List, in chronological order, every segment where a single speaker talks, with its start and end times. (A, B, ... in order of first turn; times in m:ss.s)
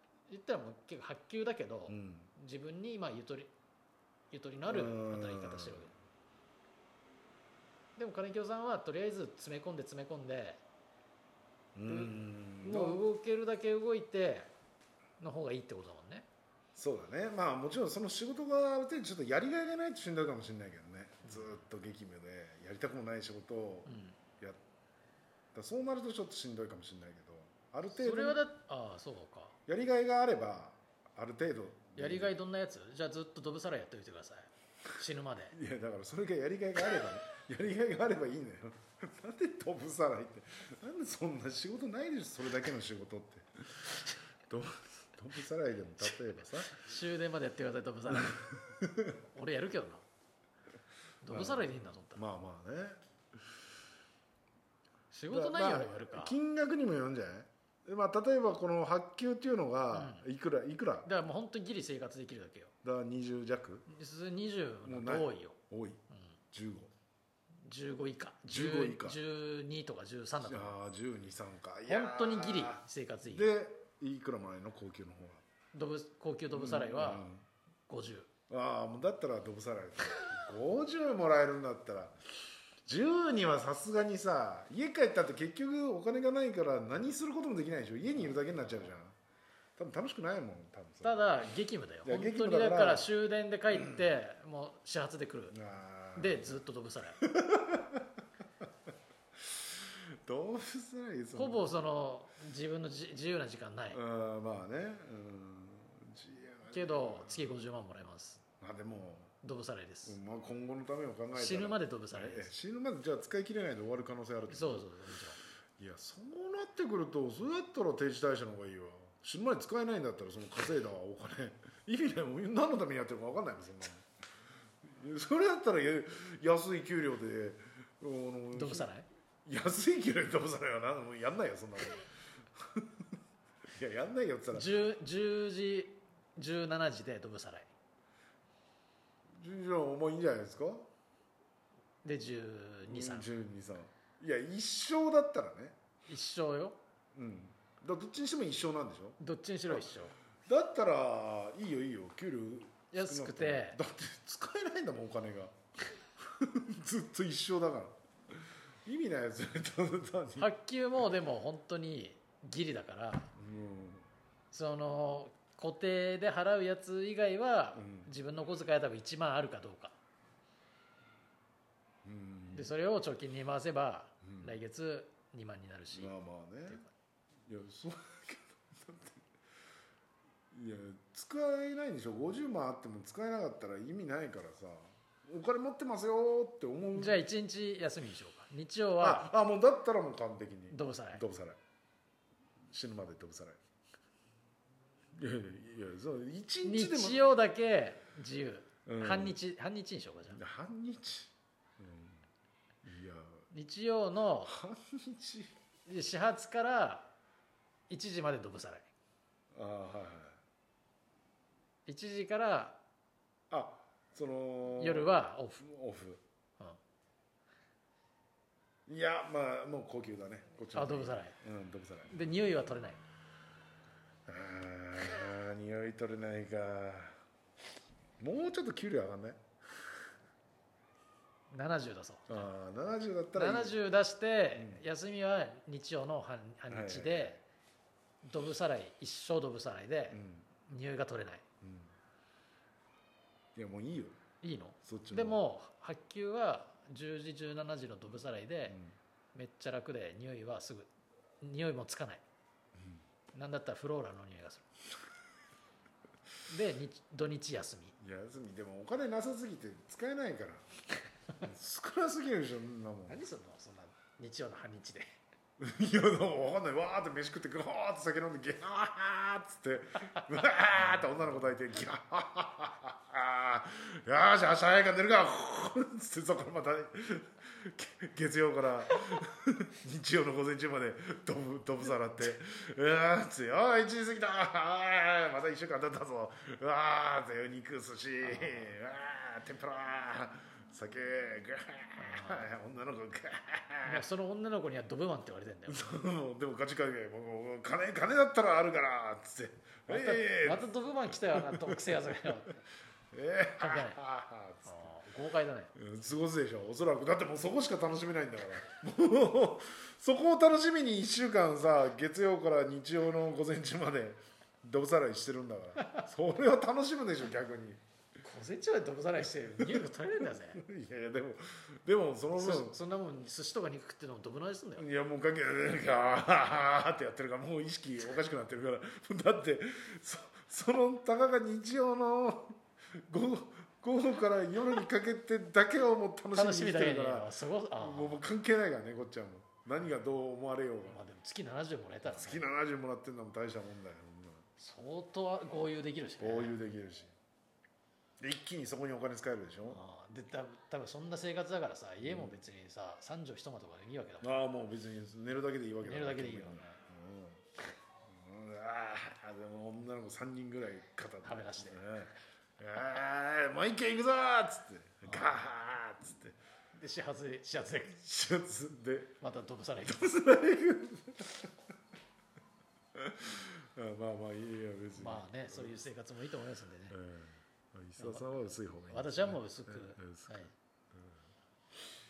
0:00.3-0:03.5 A
0:01.9-0:02.3 B
0:04.3-0:05.9 A
0:04.7-0:05.9 B
0:08.0-0:10.6 A
0:11.8-0:13.0 B
0:11.9-0:14.5 A
0:15.2-0:16.3 A
0:16.8-0:24.6 B
0:21.3-0:21.6 A
0:23.9-0:24.2 A
0:25.5-0:28.4 B
0:27.9-0:29.6 A
0:29.7-0:32.3 B
0:32.0-0:35.6 A
0:35.5-0:44.0 B
0:44.5-0:46.7 B
0:46.3-0:48.5 A
0:48.1-0:49.1 B
0:49.3-0:50.0 A
0:51.2-0:52.2 A
0:51.3-0:53.0 B
0:55.1-0:56.4 A
0:55.3-1:01.1 B
0:59.9-1:00.3 A
1:01.0-1:02.7 A
1:02.8-1:03.9 B
1:03.9-1:05.6 A
1:04.8-1:06.0 B
1:06.5-1:06.9 B
1:07.6-1:10.8 A
1:08.5-1:09.2 B
1:10.4-1:15.4 B
1:11.9-1:13.5 A
1:15.7-1:17.3 A
1:16.5-1:17.4 B
1:17.9-1:18.3 A
1:18.5-1:22.2 B
1:22.9-1:29.2 B
1:28.1-1:28.9 A
1:29.8-1:31.2 B
1:31.0-1:35.6 A
1:32.0-1:33.1 B
1:35.5-1:36.6 B
1:36.2-1:37.2 A
1:37.2-1:38.0 B
1:39.8-1:41.7 B
1:41.3-1:44.0 A
1:43.9-1:47.6 B
1:46.7-1:48.4 A
1:48.6-1:49.3 B
1:49.4-1:50.2 A
1:50.1-1:54.9 B
1:51.3-1:52.5 A
1:54.5-1:55.4 A
1:55.8-2:04.1 B
2:04.9-2:08.9 B
2:08.5-2:09.1 A
2:09.4-2:13.0 B
2:13.8-2:14.9 B
2:14.5-2:17.7 A
2:19.4-2:20.9 B
2:22.0-2:23.3 A
2:22.9-2:25.8 B
2:26.1-2:26.8 A
2:27.2-2:35.6 B
2:29.2-2:30.2 A
2:32.9-2:33.8 A
2:36.2-2:37.9 B
2:38.8-2:40.5 B
2:40.4-2:43.3 A
2:43.4-2:44.1 B
2:44.5-2:50.0 A
2:47.8-2:48.1 B
2:52.0-2:52.7 B
2:52.5-2:56.1 A
2:54.2-2:54.6 B
2:55.9-2:56.8 B
2:56.7-2:56.9 A
2:57.5-2:59.2 B
3:00.5-3:07.2 B
3:07.0-3:09.3 A
3:09.0-3:11.6 B
3:10.7-3:11.2 A
3:12.7-3:13.6 B
3:15.2-3:17.3 B
3:16.6-3:20.4 A
3:18.9-3:19.4 B
3:20.3-3:22.2 B
3:22.8-3:23.4 B
3:23.5-3:24.6 A
3:24.5-3:25.5 B
3:25.9-3:27.1 A
3:27.9-3:28.9 A
3:29.5-3:30.4 B
3:31.9-3:32.8 A
3:33.5-3:36.2 B
3:34.7-3:35.6 A
3:38.9-3:42.1 B
3:40.7-3:41.4 A
3:42.1-3:43.0 A
3:44.3-3:47.2 B
3:48.2-3:49.4 B
3:51.5-3:52.5 A
3:52.3-3:53.8 B
3:53.3-3:57.4 A
3:54.6-3:54.8 B
3:56.7-3:57.4 B
3:58.2-4:01.4 A
4:00.1-4:00.5 B
4:01.6-4:01.9 B
4:03.6-4:04.2 B
4:04.4-4:08.8 A
4:04.8-4:05.4 B
4:08.7-4:09.0 B
4:09.3-4:10.9 A
4:11.4-4:12.2 A
4:13.3-4:14.7 A
4:16.5-4:18.0 A
4:18.0-4:20.6 B
4:21.4-4:23.2 B
4:23.1-4:25.1 A
4:25.6-4:54.1 B
4:48.2-4:48.7 A
4:52.0-4:52.5 A
4:53.8-4:55.9 A
4:55.7-5:02.4 B
4:59.9-5:02.6 A
5:03.1-5:04.9 B
5:03.6-5:04.0 A
5:04.7-5:05.8 A
5:05.8-5:17.8 B
5:15.8-5:16.0 A
5:18.2-5:20.6 A
5:19.6-5:22.8 B
5:22.3-5:24.9 A
5:24.8-5:41.0 B
5:36.3-5:38.2 A
5:40.9-5:42.4 A
5:42.0-5:44.5 B
5:44.6-5:46.6 A
5:46.2-5:47.1 B
5:48.2-5:49.8 B
5:49.7-5:54.3 A
5:52.0-5:52.4 B
5:54.2-5:57.5 B
5:55.8-5:56.8 A
5:58.0-6:06.4 B
6:01.2-6:02.1 A
6:05.1-6:05.4 A
6:06.7-6:08.0 A
6:07.9-6:09.2 B
6:09.2-6:10.1 A
6:09.8-6:11.5 B
6:13.0-6:15.8 B
6:15.0-6:17.0 A
6:16.9-6:21.1 B
6:18.0-6:20.5 A